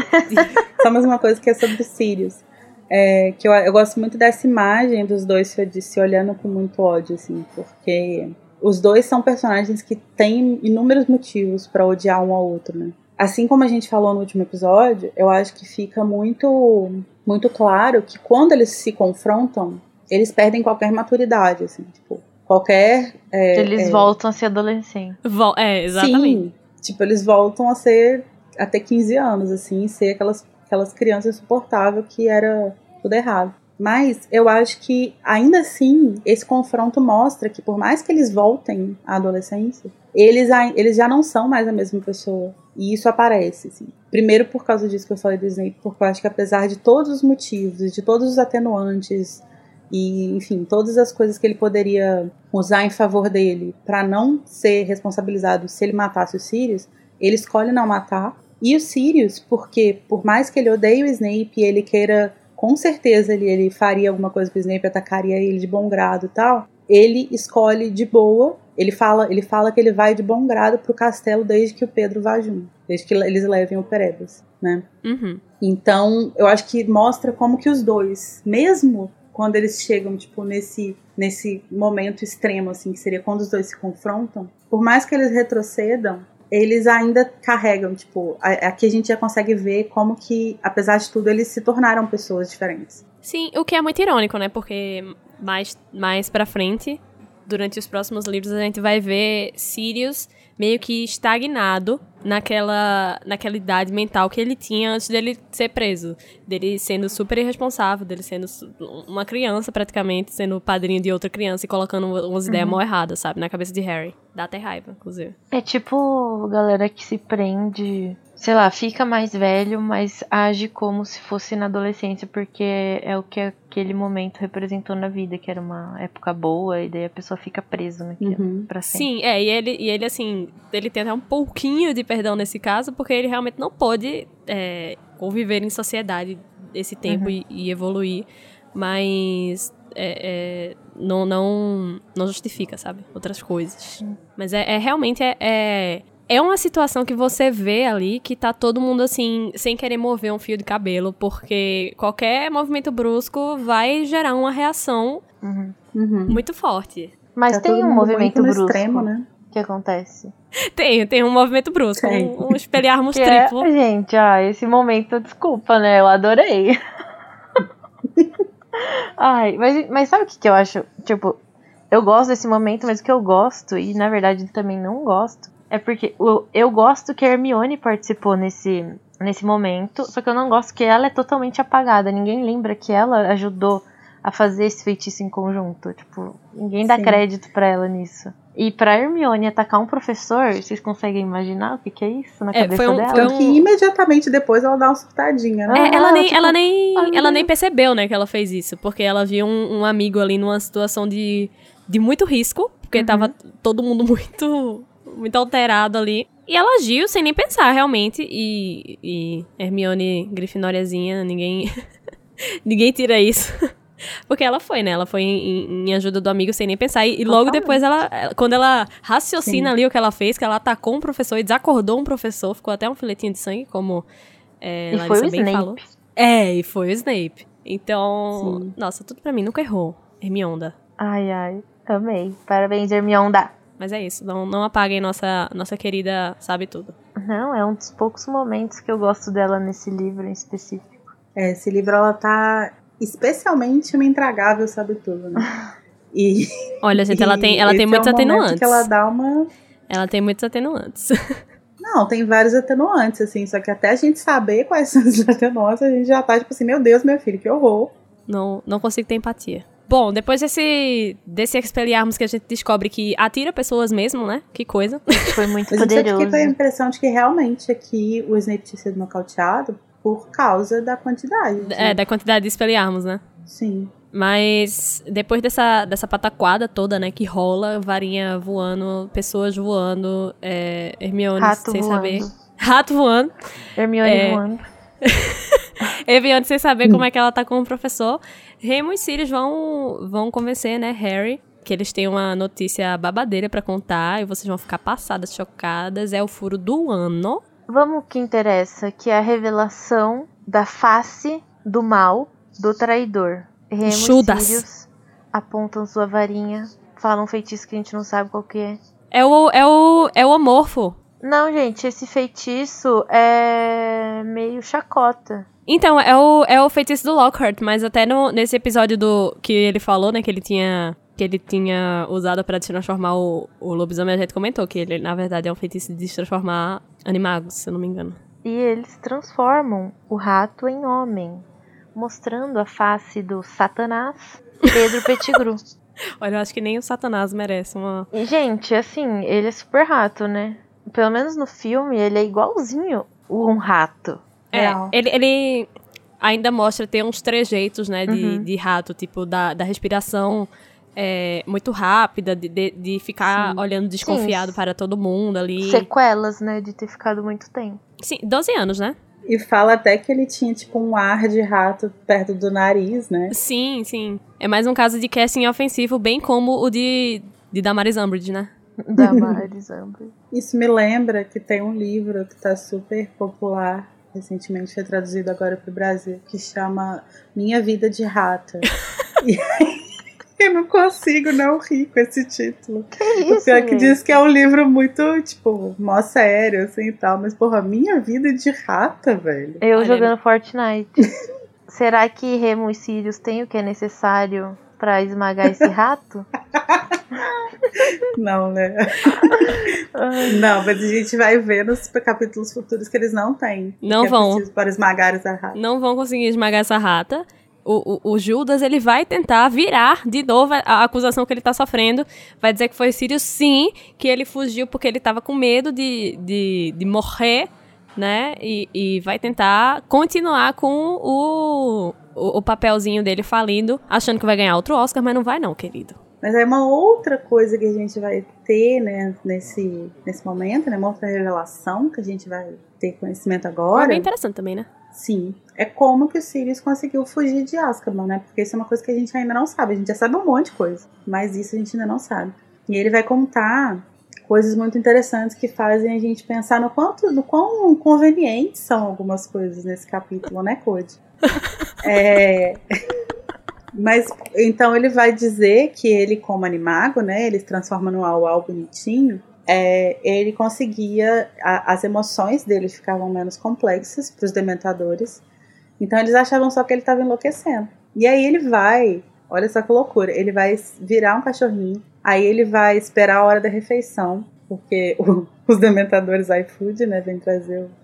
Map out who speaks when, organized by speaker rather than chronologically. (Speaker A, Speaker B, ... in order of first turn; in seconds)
Speaker A: 0.3-0.6, 25.2-26.4, 75.0-75.4, 93.2-115.3, 128.9-155.2, 156.3-157.1, 160.8-163.7, 192.5-193.7, 195.7-211.7, 212.7-213.7, 214.3-224.0, 224.6-230.7, 233.8-236.9, 246.8-248.9, 249.9-251.1, 258.3-265.1, 271.6-273.2, 274.1-283.3, 284.0-284.4, 285.0-297.4, 303.8-304.6, 309.1-311.0, 315.7-328.2, 336.2-338.1, 344.5-345.7, 346.2-355.9, 358.0-359.0, 363.3-368.5, 389.8-390.1, 403.8-404.4, 405.5-426.0, 433.7-434.7
Speaker B: 0.7-24.1, 25.9-74.8, 75.6-93.0, 128.2-128.7, 155.9-156.4, 157.5-159.2, 162.0-162.5, 186.9-187.2, 193.1-196.0, 219.4-219.7, 228.3-228.7, 241.3-245.5, 246.1-249.5, 251.8-257.9, 265.7-272.0, 273.5-273.9, 344.5-344.9, 359.3-363.3, 369.0-369.4, 370.3-378.7, 379.2-379.8, 380.4-389.6, 396.6-399.7, 400.3-405.6, 426.2-434.1, 434.9-451.0, 451.8-452.6, 453.7-465.2, 465.8-477.8
Speaker C: 23.5-25.2, 112.5-112.8, 115.5-129.1, 155.4-155.8, 157.3-160.3, 163.1-166.8, 168.8-171.4, 171.9-193.3, 195.7-197.5, 203.0-203.3, 217.3-217.8, 224.9-225.8, 231.0-233.5, 237.2-240.9, 265.3-266.5, 281.4-282.3, 283.8-284.6, 297.7-308.8, 311.2-315.5, 328.4-335.6, 338.1-344.2, 348.1-348.5, 353.4-354.6, 355.6-357.8, 368.8-370.1, 383.0-384.0, 389.6-391.1, 391.7-396.3, 399.3-400.4